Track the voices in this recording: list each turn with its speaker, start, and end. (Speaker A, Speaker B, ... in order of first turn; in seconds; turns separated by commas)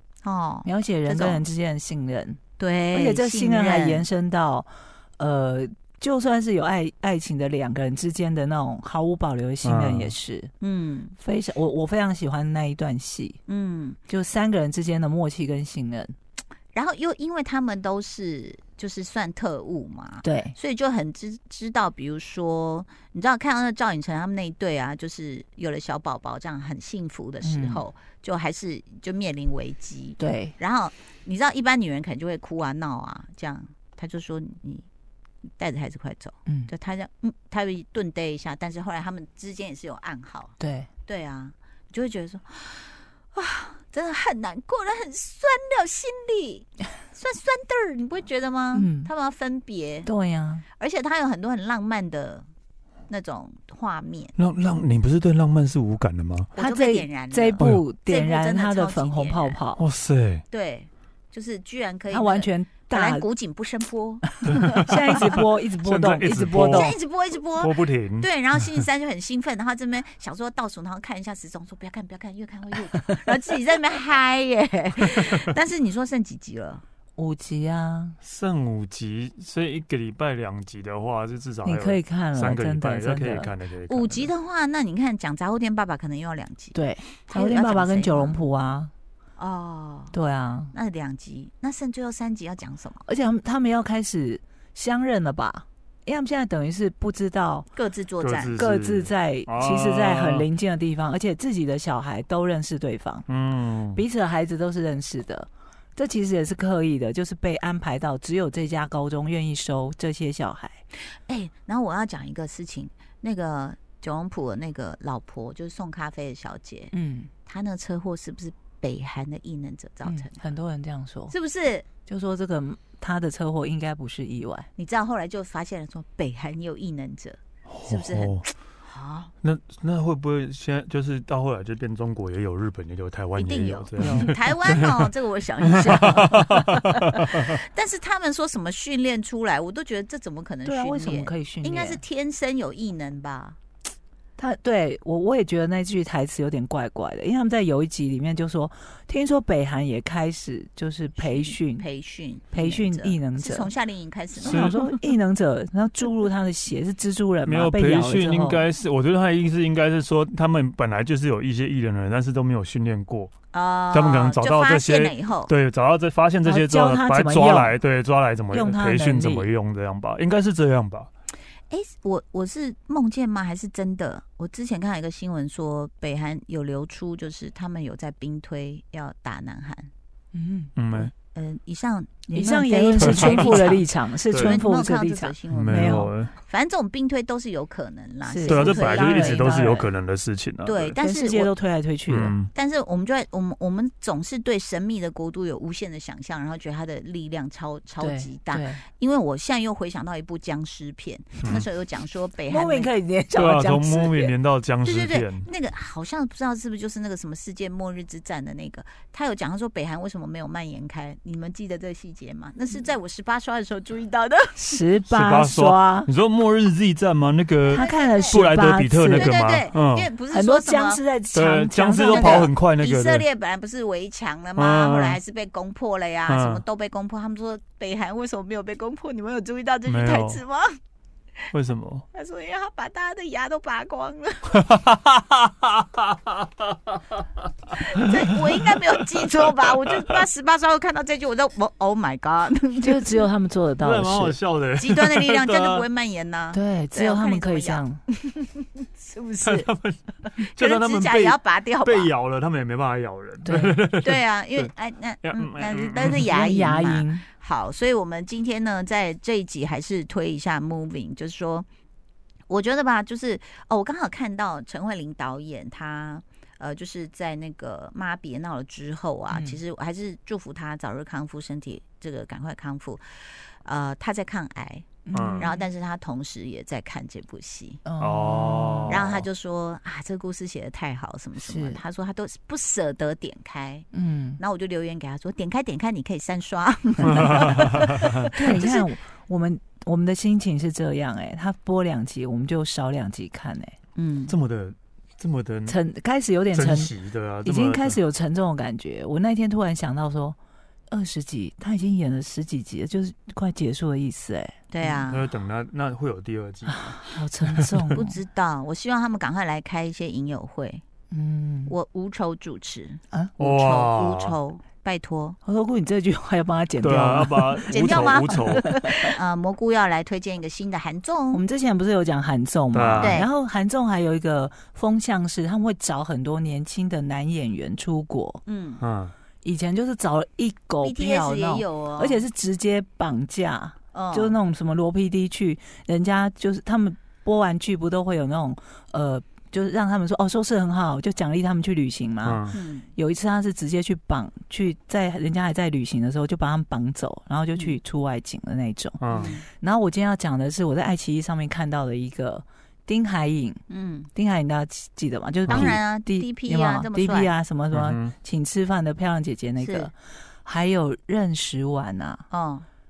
Speaker A: 0.2-1.4, Speaker B: 0.6-2.4, Speaker A: 2.6-4.1, Speaker B: 2.9-10.5, Speaker C: 9.6-10.1, Speaker A: 10.6-11.2, Speaker B: 11.2-13.4, Speaker A: 13.5-14.0, Speaker B: 14.1-16.1, Speaker A: 16.7-34.9, Speaker B: 20.2-20.5, Speaker B: 27.4-27.8, Speaker B: 30.2-30.5, Speaker A: 35.6-40.5, Speaker B: 40.6-40.9, Speaker A: 41.1-50.1, Speaker B: 48.7-49.1, Speaker B: 50.0-50.6, Speaker A: 50.8-52.5, Speaker A: 53.1-54.3, Speaker C: 54.4-56.5, Speaker A: 56.5-59.6, Speaker B: 56.6-59.8, Speaker C: 57.6-57.8, Speaker C: 59.8-60.4, Speaker A: 60.5-65.4, Speaker B: 62.1-63.2, Speaker C: 64.5-67.0, Speaker B: 64.8-66.9, Speaker A: 66.7-76.8, Speaker C: 67.5-68.8, Speaker B: 77.2-78.2, Speaker C: 78.2-84.3, Speaker B: 81.6-83.5, Speaker A: 83.9-88.4, Speaker B: 86.7-88.9, Speaker A: 89.4-90.1, Speaker B: 90.1-90.7, Speaker A: 90.7-93.0, Speaker B: 93.0-97.7, Speaker A: 97.7-98.5, Speaker C: 98.2-100.5, Speaker B: 98.6-103.2, Speaker C: 103.3-104.0, Speaker B: 103.9-110.8, Speaker A: 111.2-116.9, Speaker B: 116.9-117.3, Speaker A: 117.5-120.4, Speaker B: 120.0-121.3, Speaker A: 121.3-121.9, Speaker B: 122.0-124.7, Speaker A: 124.8-129.3, Speaker C: 127.7-128.5, Speaker C: 129.4-135.0, Speaker A: 133.3-143.6, Speaker C: 135.8-137.5, Speaker B: 140.6-142.0, Speaker B: 144.4-151.8, Speaker A: 151.2-154.8, Speaker B: 152.5-153.7, Speaker B: 154.4-158.6, Speaker C: 154.4-155.0, Speaker C: 157.4-163.3, Speaker A: 163.5-165.5, Speaker C: 163.9-171.1, Speaker B: 166.4-167.7, Speaker B: 168.5-169.5, Speaker A: 171.7-179.9, Speaker B: 180.3-180.7, Speaker C: 180.8-181.1, Speaker A: 180.9-189.5, Speaker B: 182.3-186.1, Speaker C: 183.0-183.6, Speaker C: 184.3-184.6, Speaker C: 185.5-186.3, Speaker B: 188.3-189.9, Speaker C: 188.5-191.0, Speaker A: 190.6-191.5, Speaker B: 191.0-192.3, Speaker C: 192.1-192.5, Speaker A: 192.5-202.9, Speaker B: 198.0-198.8, Speaker B: 202.5-204.3, Speaker C: 203.3-205.5, Speaker A: 204.8-214.8, Speaker B: 214.6-216.1, Speaker C: 215.0-220.1, Speaker A: 217.7-218.3, Speaker B: 217.7-219.3, Speaker A: 219.1-221.0, Speaker B: 220.3-222.5, Speaker C: 221.3-223.2, Speaker A: 222.0-230.6, Speaker C: 224.6-225.2, Speaker C: 226.3-226.6, Speaker C: 229.9-230.4, Speaker C: 231.5-232.0, Speaker A: 232.1-234.7, Speaker C: 234.6-237.2, Speaker A: 237.8-243.3, Speaker B: 242.8-244.4, Speaker C: 243.8-245.8, Speaker A: 244.8-249.7, Speaker B: 246.5-248.0, Speaker C: 249.4-254.7, Speaker A: 250.5-252.1, Speaker B: 253.4-253.7, Speaker A: 254.0-261.6, Speaker C: 255.2-256.3, Speaker B: 256.3-257.2, Speaker A: 262.5-277.8, Speaker B: 269.3-269.6, Speaker B: 275.1-275.6, Speaker C: 275.1-275.5, Speaker B: 277.9-278.9, Speaker C: 278.0-279.2, Speaker A: 278.9-283.9, Speaker B: 281.4-281.8, Speaker B: 283.9-284.4, Speaker A: 284.4-288.9, Speaker C: 287.1-288.1, Speaker B: 288.3-293.7, Speaker A: 293.9-294.4, Speaker C: 294.3-295.8, Speaker B: 295.7-300.4, Speaker C: 296.5-298.0, Speaker B: 300.9-305.0, Speaker A: 304.7-305.3, Speaker C: 305.1-307.0, Speaker B: 306.6-308.2, Speaker A: 307.9-310.8, Speaker B: 311.1-311.7, Speaker A: 311.6-315.4, Speaker C: 313.4-314.3, Speaker B: 315.4-317.7, Speaker C: 316.8-318.7, Speaker A: 317.6-321.4, Speaker B: 318.5-319.1, Speaker B: 321.3-328.4, Speaker C: 322.7-323.2, Speaker A: 323.0-323.3, Speaker A: 328.4-328.8, Speaker C: 328.8-329.1, Speaker B: 329.4-349.0, Speaker A: 330.8-332.2, Speaker A: 333.9-334.4, Speaker C: 342.2-342.6, Speaker A: 342.5-342.9, Speaker A: 347.5-347.8, Speaker C: 349.0-349.3, Speaker A: 349.1-349.4, Speaker B: 349.6-353.6, Speaker A: 353.7-354.1, Speaker B: 354.1-362.2, Speaker A: 355.5-357.3, Speaker C: 355.5-355.8, Speaker C: 357.7-358.1, Speaker A: 359.6-359.9, Speaker A: 362.3-362.6